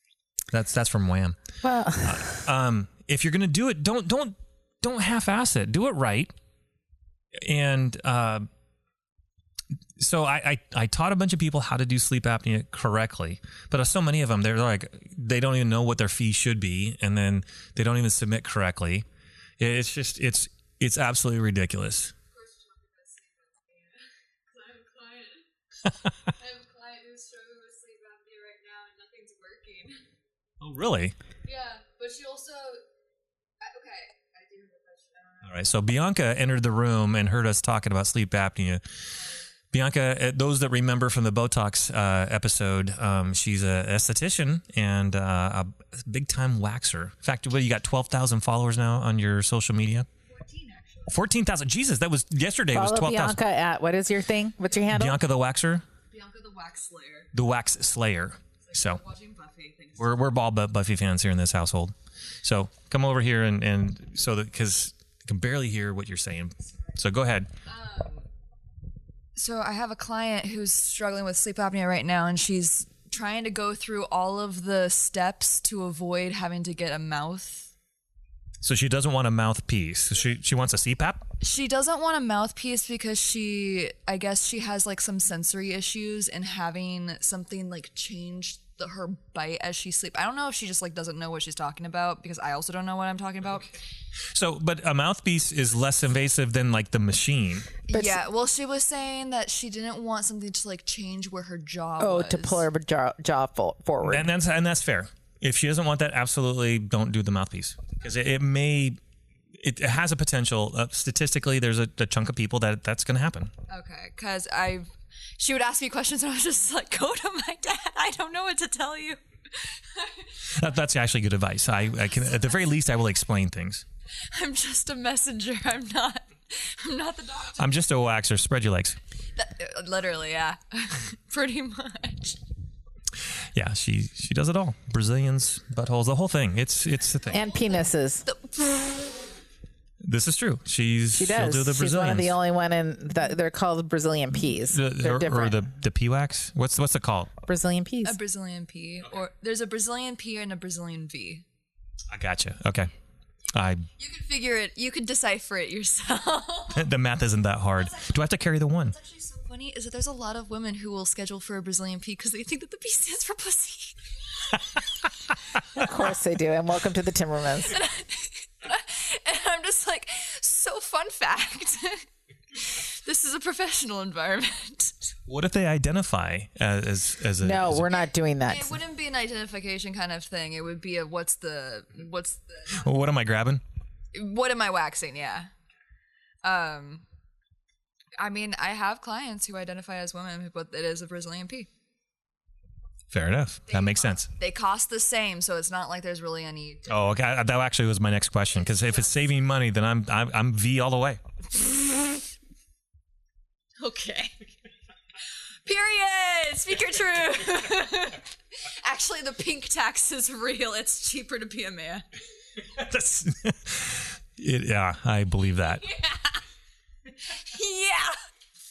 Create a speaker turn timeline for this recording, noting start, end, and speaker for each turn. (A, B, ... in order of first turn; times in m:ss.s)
0:00.5-0:01.4 A
0:01.6-0:02.4 B
0:02.0-0:06.3 A
0:07.3-0:08.5 A
0:10.0-0:19.0 A
0:19.6-0:22.1 A
0:22.3-0:25.4 C
0:26.3-0:30.0 C
0:30.6-0:31.1 A
0:31.4-0:32.8 C
0:33.6-0:35.6 C
0:35.4-0:38.8 A
0:39.7-0:50.1 A
0:50.3-0:51.2 C
0:51.1-0:53.4 A
0:52.7-0:55.2 B
0:54.9-0:55.8 A
0:56.1-0:57.3 C
0:57.3-0:59.0 A
0:58.6-1:00.2 C
1:00.0-1:07.5 A
1:06.7-1:07.0 C
1:07.6-1:08.3 C
1:09.3-1:17.7 C
1:18.6-1:21.3 A
1:21.4-1:33.8 C
1:34.3-1:37.7 A
1:37.9-1:42.7 C
1:37.9-1:38.2 B
1:42.0-1:44.3 B
1:44.0-1:49.0 A
1:49.5-1:53.5 A
1:53.7-2:00.5 C
2:00.5-2:03.8 A
2:02.2-2:02.5 C
2:04.2-2:07.7 C
2:07.6-2:09.0 A
2:09.4-2:12.4 C
2:13.5-2:17.4 A
2:17.3-2:19.3 C
2:17.3-2:18.3 B
2:20.0-2:22.4 A
2:21.1-2:25.6 B
2:24.3-2:27.3 A
2:27.5-2:28.2 B
2:28.0-2:31.4 C
2:32.1-2:32.9 A
2:33.5-2:33.8 A
2:34.0-2:36.9 C
2:36.7-2:38.9 A
2:38.9-2:44.6 C
2:45.8-2:47.8 B
2:47.6-2:55.0 C
2:55.3-2:57.9 A
2:57.4-2:58.8 B
2:58.4-3:02.9 C
3:02.7-3:03.6 A
3:04.1-3:05.5 C
3:06.4-3:07.0 C
3:08.2-3:11.7 C
3:13.1-3:14.3 A
3:13.7-3:17.0 C
3:16.9-3:21.2 A
3:18.7-3:19.1 C
3:23.8-3:24.4 C
3:25.6-3:32.0 C
3:32.7-3:35.8 A
3:35.8-3:36.4 C
3:37.1-3:38.2 C